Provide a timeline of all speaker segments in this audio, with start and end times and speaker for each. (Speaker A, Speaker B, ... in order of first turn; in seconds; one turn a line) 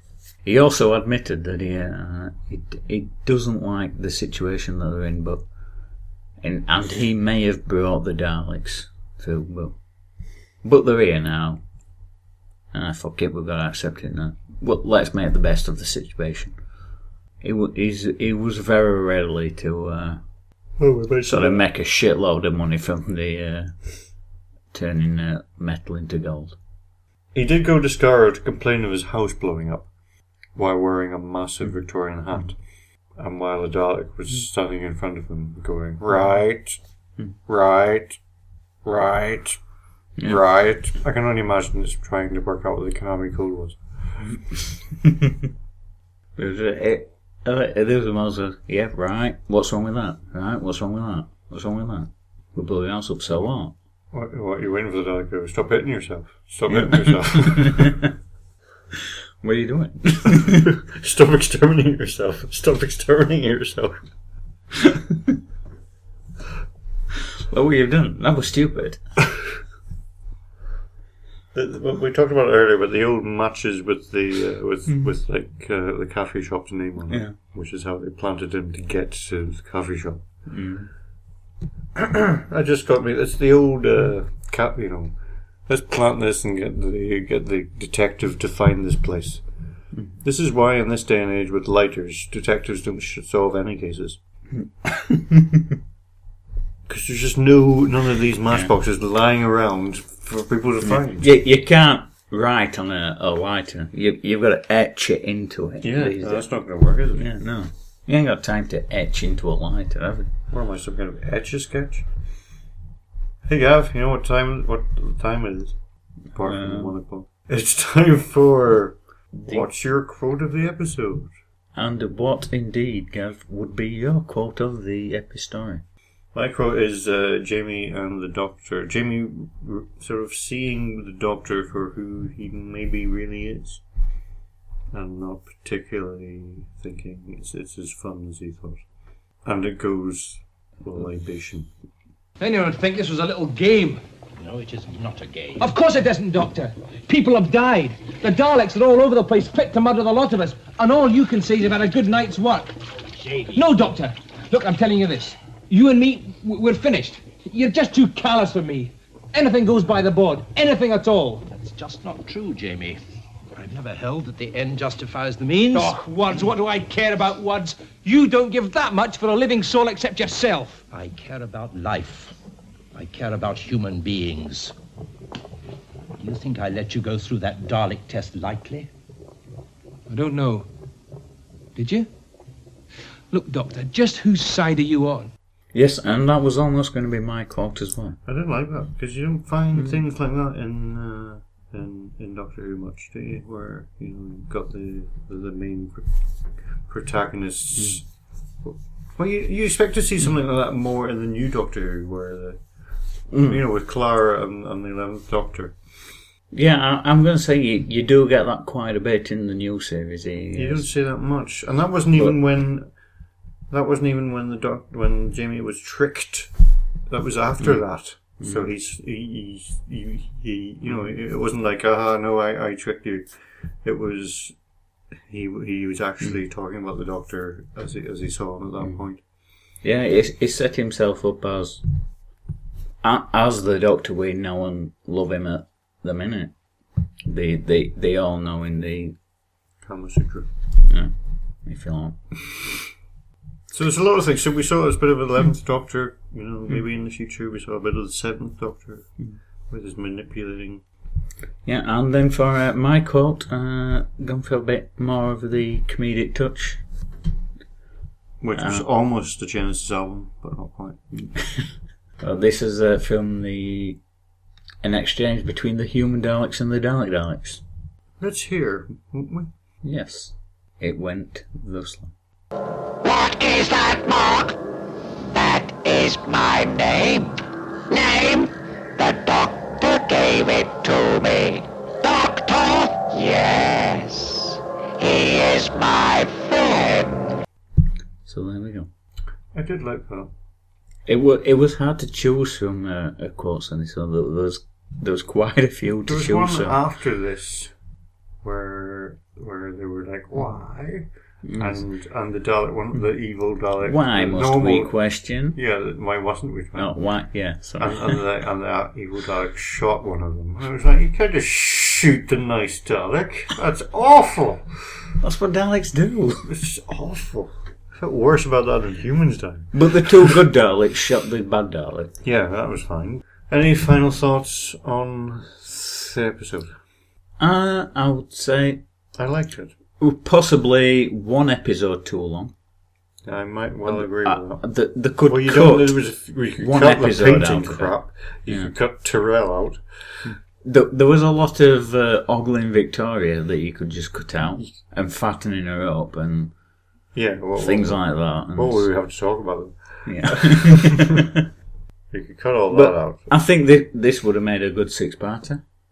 Speaker A: 0.4-5.5
Speaker A: 6.4-9.8
Speaker A: 10.6-11.6
Speaker A: 12.7-16.6
Speaker A: 17.4-20.2
Speaker B: 20.8-21.6
Speaker A: 21.3-24.0
Speaker A: 24.7-26.6
Speaker B: 27.3-29.9
Speaker B: 30.6-32.6
Speaker B: 33.2-36.8
Speaker B: 37.5-38.2
Speaker B: 38.8-39.6
Speaker B: 40.2-43.8
Speaker A: 44.6-45.4
Speaker A: 46.4-53.8
Speaker B: 54.1-58.0
Speaker A: 56.7-58.1
Speaker A: 59.4-60.7
Speaker B: 60.4-64.0
Speaker A: 67.5-69.0
Speaker B: 71.5-80.2
Speaker A: 77.1-77.3
Speaker A: 80.5-80.9
Speaker B: 82.0-85.2
Speaker B: 85.7-89.4
Speaker B: 90.2-94.2
Speaker A: 94.8-95.7
Speaker B: 96.9-101.3
Speaker A: 101.1-106.5
Speaker B: 105.8-107.3
Speaker A: 107.2-110.3
Speaker B: 110.5-112.1
Speaker B: 113.5-115.8
Speaker B: 116.3-121.3
Speaker A: 116.4-116.9
Speaker A: 119.4-119.6
Speaker A: 121.8-125.8
Speaker B: 126.3-133.8
Speaker B: 134.9-138.8
Speaker B: 139.4-141.7
Speaker C: 142.4-144.0
Speaker D: 144.4-145.7
Speaker C: 145.6-152.7
Speaker D: 153.1-153.8
Speaker C: 153.6-161.4
Speaker D: 161.5-163.0
Speaker D: 163.5-166.3
Speaker C: 165.7-170.8
Speaker D: 170.9-172.3
Speaker D: 172.9-174.7
Speaker D: 176.2-178.9
Speaker C: 180.1-180.7
Speaker C: 181.8-182.1
Speaker C: 183.3-185.3
Speaker A: 185.7-188.2
Speaker B: 188.3-196.1
Speaker B: 196.8-198.1
Speaker B: 198.6-202.6
Speaker A: 203.3-203.6
Speaker B: 203.5-205.8
Speaker A: 206.5-210.9
Speaker B: 210.5-212.9
Speaker B: 213.7-216.5
Speaker B: 217.1-223.3
Speaker A: 218.4-218.7
Speaker B: 223.8-224.6
Speaker B: 225.3-229.2
Speaker A: 229.8-231.8
Speaker A: 233.0-236.5
Speaker A: 237.2-239.2
Speaker B: 239.8-240.5
Speaker A: 240.8-241.1
Speaker A: 241.7-242.2
Speaker B: 243.7-249.2
Speaker B: 249.7-250.8
Speaker A: 251.7-256.8
Speaker B: 258.4-261.0
Speaker A: 258.6-258.9
Speaker A: 261.2-261.6
Speaker A: 262.2-264.0
Speaker A: 264.8-267.6
Speaker B: 268.2-269.5
Speaker A: 269.8-272.1
Speaker E: 273.0-274.6
Speaker E: 275.3-287.4
Speaker A: 288.3-288.9
Speaker B: 289.5-290.3
Speaker A: 291.1-296.8
Speaker B: 296.1-297.7
Speaker B: 298.4-304.9
Speaker A: 301.4-301.8
Speaker A: 303.8-305.6
Speaker B: 305.5-306.9
Speaker A: 306.8-308.2
Speaker B: 307.8-315.0
Speaker A: 315.2-316.5
Speaker B: 316.5-320.4
Speaker A: 319.7-322.1
Speaker B: 322.2-326.8
Speaker A: 327.4-328.8
Speaker B: 329.2-329.7
Speaker A: 330.0-332.5
Speaker B: 333.2-334.7
Speaker A: 333.9-336.0
Speaker B: 335.3-339.8
Speaker A: 336.6-337.9
Speaker A: 340.2-346.5
Speaker B: 347.1-351.3
Speaker A: 347.6-348.9
Speaker A: 350.1-351.4
Speaker B: 352.1-353.3
Speaker A: 352.7-355.6